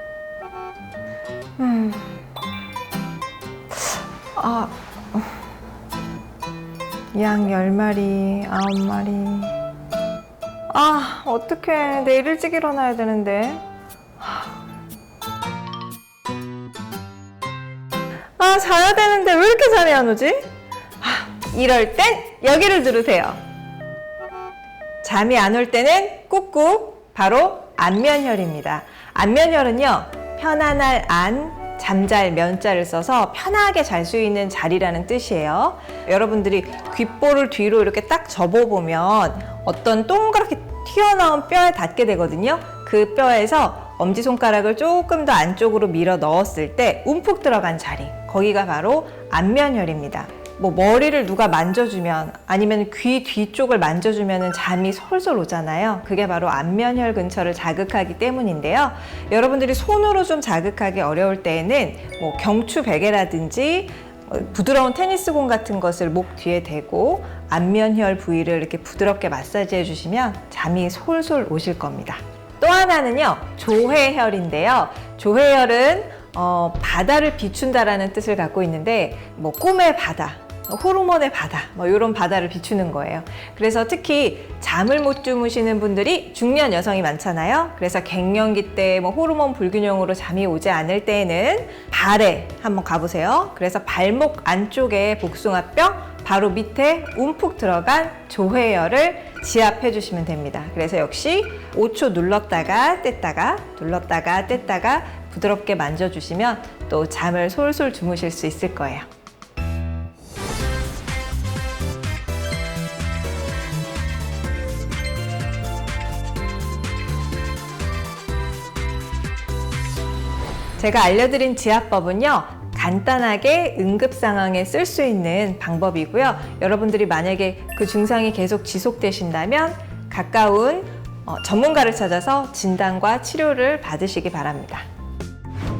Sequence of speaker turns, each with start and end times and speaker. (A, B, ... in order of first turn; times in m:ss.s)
0:01.6-0:02.2 A
0:04.4-0:05.4 A
0:07.1-0:09.6 A
0:10.7-0:13.6 A
0:14.2-0:14.5 A
0:18.4-0:20.5 A
0:21.0-0:23.4 A
0:25.0-1:49.1 A
2:00.8-2:14.9 A